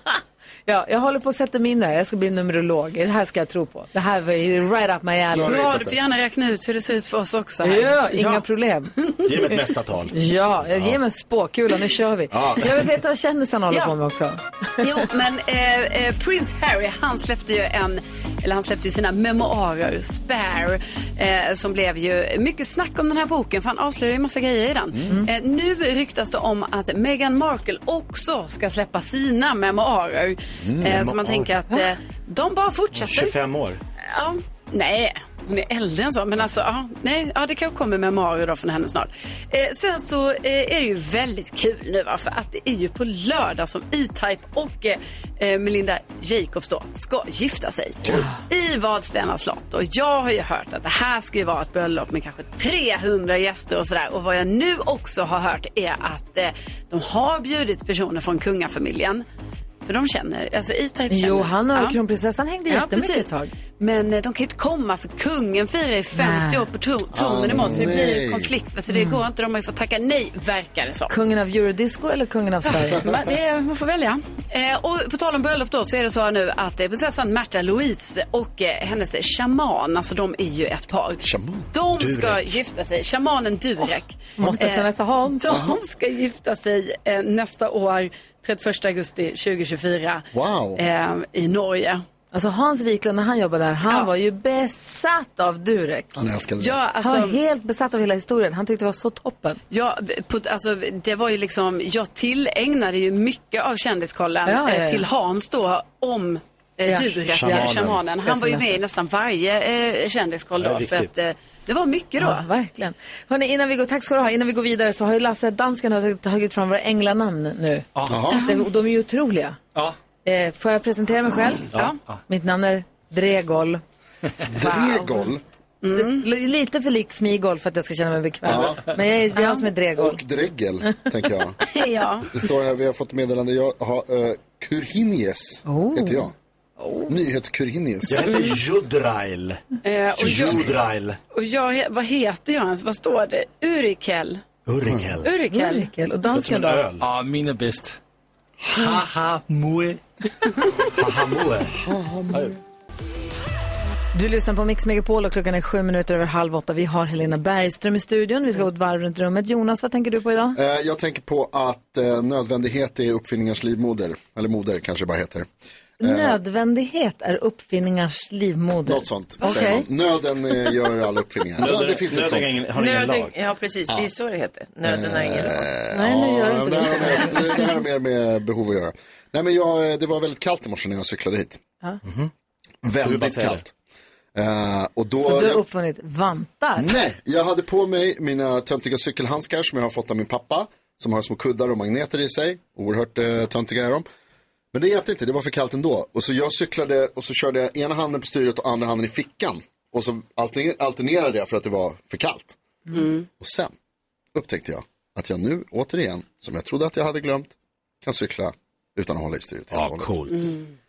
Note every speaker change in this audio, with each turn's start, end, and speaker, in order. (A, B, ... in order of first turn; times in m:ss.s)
0:00.7-0:05.7 A
0:05.3-0:06.0 B
0:05.4-0:08.4 C
0:07.6-0:08.9 A
0:09.2-0:10.2 D
0:10.1-0:15.1 A
0:12.3-0:13.0 D
0:14.8-0:33.4 C
0:30.6-0:31.1 B
0:30.9-0:31.4 D
0:32.9-0:33.8 D
0:34.0-0:59.2 C
0:59.8-1:02.0 C
1:01.1-1:03.5 A
1:02.7-1:11.1 C
1:06.2-1:06.7 A
1:07.1-1:08.5 B
1:08.9-1:09.2 A
1:11.1-1:13.0 A
1:12.9-1:32.0 C
1:21.2-1:21.7 B
1:22.0-1:22.6 D
1:24.4-1:25.5 A
1:25.4-1:25.8 B
1:30.3-1:30.8 B
1:32.3-1:36.1 A
1:36.1-1:36.8 B
1:36.6-1:37.4 C
1:37.0-1:39.6 A
1:39.7-1:52.4 C
1:44.4-1:45.1 A
1:46.9-1:48.8 A
1:47.3-1:48.0 D
1:50.6-1:51.1 D
1:52.2-1:59.6 A
1:58.1-1:58.4 B
1:58.3-1:58.6 C
2:00.2-2:01.7 A
2:02.3-2:03.8 A
2:04.5-2:05.4 B
2:04.7-2:05.0 C
2:05.8-2:06.3 C
2:05.9-2:10.2 A
2:08.4-2:09.0 B
2:09.4-2:09.6 C
2:10.0-2:11.6 B
2:11.6-2:12.4 C
2:12.3-2:16.3 B
2:15.6-2:16.3 A
2:16.8-2:17.1 A
2:17.1-2:18.3 B
2:18.1-2:19.6 D
2:18.3-2:18.6 C
2:19.8-2:20.7 C
2:20.1-2:21.2 D
2:20.2-2:20.7 B
2:21.3-2:24.4 C
2:24.6-2:25.3 D
2:24.8-2:25.1 B
2:25.2-2:25.9 C
2:25.5-2:26.8 A
2:26.3-2:27.1 D
2:27.0-2:28.0 E
2:28.7-2:30.0 E
2:30.9-2:31.8 D
2:31.8-2:32.5 B
2:32.3-2:32.6 D
2:34.1-2:40.6 A
2:40.6-2:45.5 B
2:46.0-2:49.9 A
2:46.0-2:46.4 B
2:48.9-2:52.6 B
2:51.6-2:53.3 D
2:52.8-2:55.7 F
2:54.9-3:01.6 B
2:55.9-2:57.7 A
3:02.0-3:02.3 D
3:02.8-3:03.7 B
3:03.0-3:03.6 D
3:04.4-3:05.6 B
3:05.2-3:06.9 A
3:06.8-3:14.0 B
3:14.7-3:22.6 B
3:22.9-3:23.3 C
3:23.4-3:23.7 B
3:24.3-3:30.1 B
3:29.7-3:30.5 D
3:30.3-3:30.6 C